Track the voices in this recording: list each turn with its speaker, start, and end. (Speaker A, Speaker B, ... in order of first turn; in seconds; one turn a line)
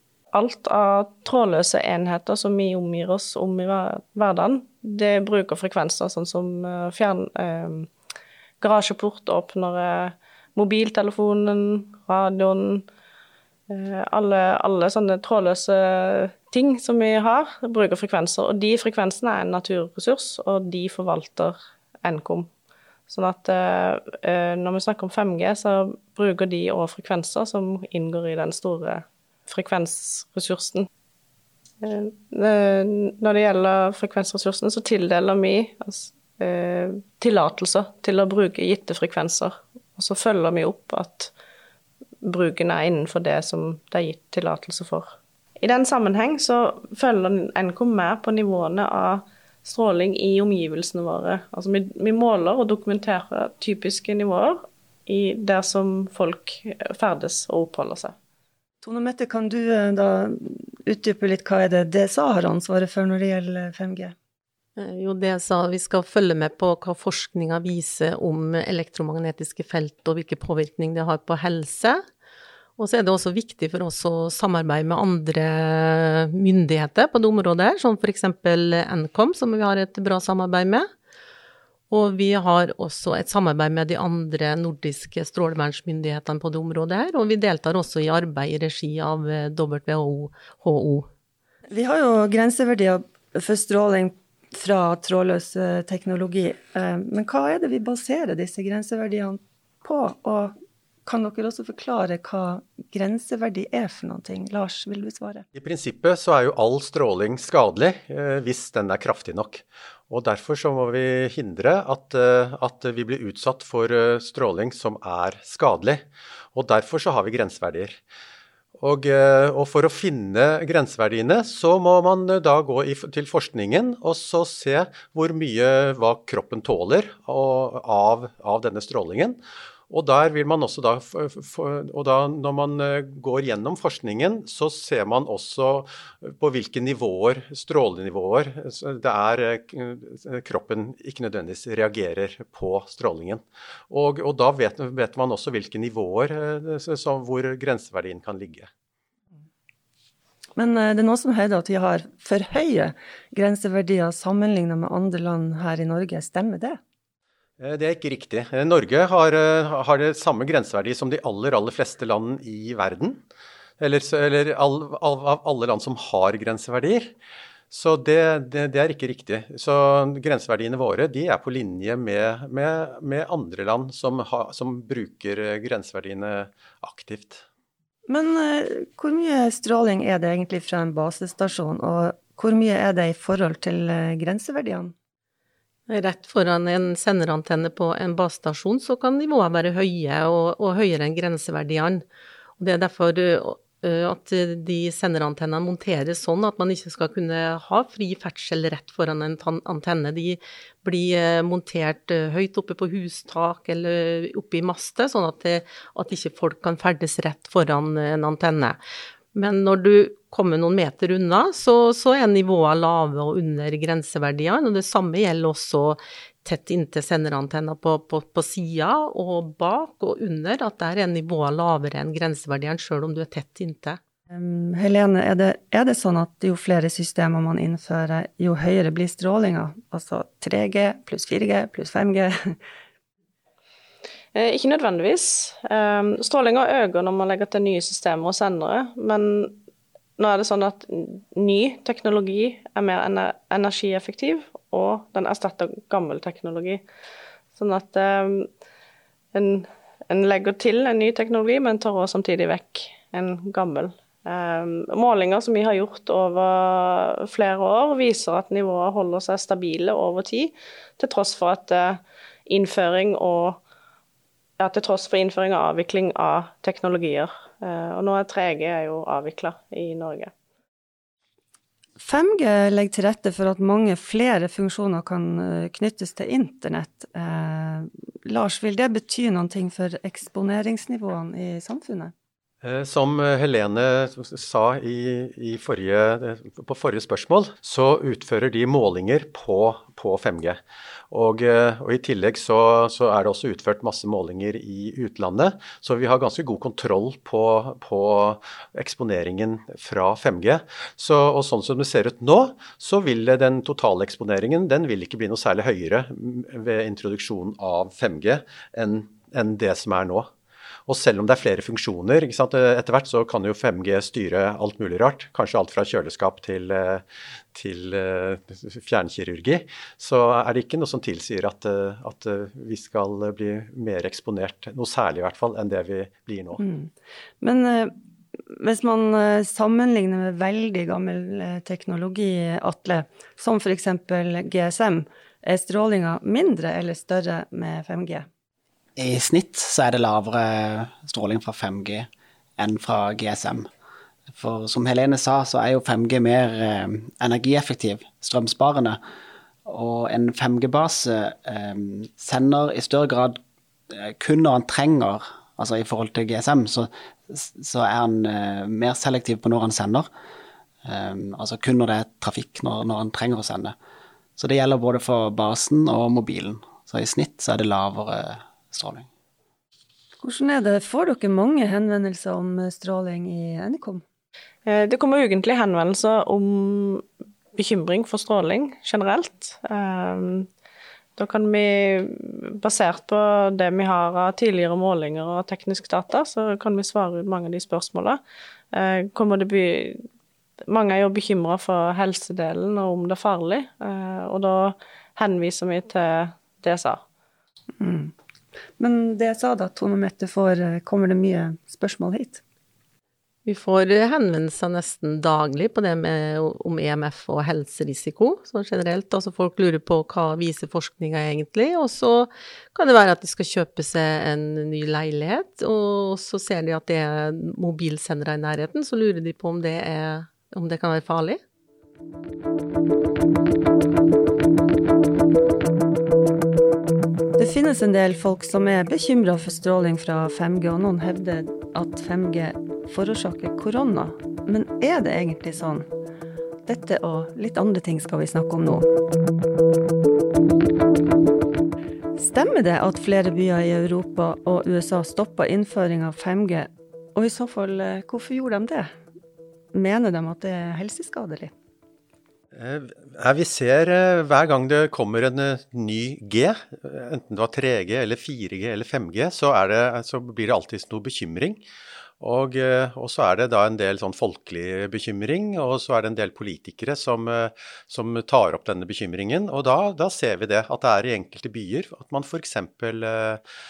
Speaker A: 0.3-7.9
Speaker A: 8.6-12.8
Speaker A: 13.7-22.5
Speaker A: 23.1-30.9
Speaker A: 31.8-41.3
Speaker A: 42.2-58.1
Speaker B: 58.8-64.1
Speaker C: 64.8-72.0
Speaker C: 72.8-80.9
Speaker C: 81.9-91.1
Speaker B: 91.7-100.5
Speaker B: 101.0-105.4
Speaker D: 105.5-118.0
Speaker D: 118.8-129.4
Speaker D: 129.9-148.7
Speaker B: 150.6-156.8
Speaker D: 157.6-163.2
Speaker D: 163.8-167.1
Speaker D: 167.7-177.4
Speaker B: 178.1-184.9
Speaker C: 185.9-192.0
Speaker C: 192.6-208.8
Speaker C: 209.3-224.0
Speaker B: 224.3-232.6
Speaker A: 234.3-239.6
Speaker A: 240.2-246.8
Speaker A: 247.5-248.5
Speaker A: 249.3-263.6
Speaker A: 264.6-270.3
Speaker B: 272.0-282.1
Speaker D: 282.6-290.6
Speaker D: 291.1-310.3
Speaker D: 310.9-326.6
Speaker B: 326.6-327.9
Speaker B: 328.5-338.3
Speaker E: 339.0-343.7
Speaker E: 344.3-349.0
Speaker E: 349.6-353.4
Speaker E: 353.9-360.1
Speaker E: 360.8-363.7
Speaker E: 364.4-369.1
Speaker B: 370.2-374.0
Speaker A: 374.6-377.0
Speaker A: 377.5-380.5
Speaker A: 381.2-388.2
Speaker A: 388.7-390.0
Speaker A: 390.7-397.0
Speaker B: 397.8-398.1
Speaker B: 398.8-402.4
Speaker C: 403.4-421.4
Speaker B: 427.4-435.9
Speaker B: 436.6-438.9
Speaker B: 442.2-448.9
Speaker B: 449.7-451.5
Speaker D: 452.5-461.6
Speaker D: 462.2-473.4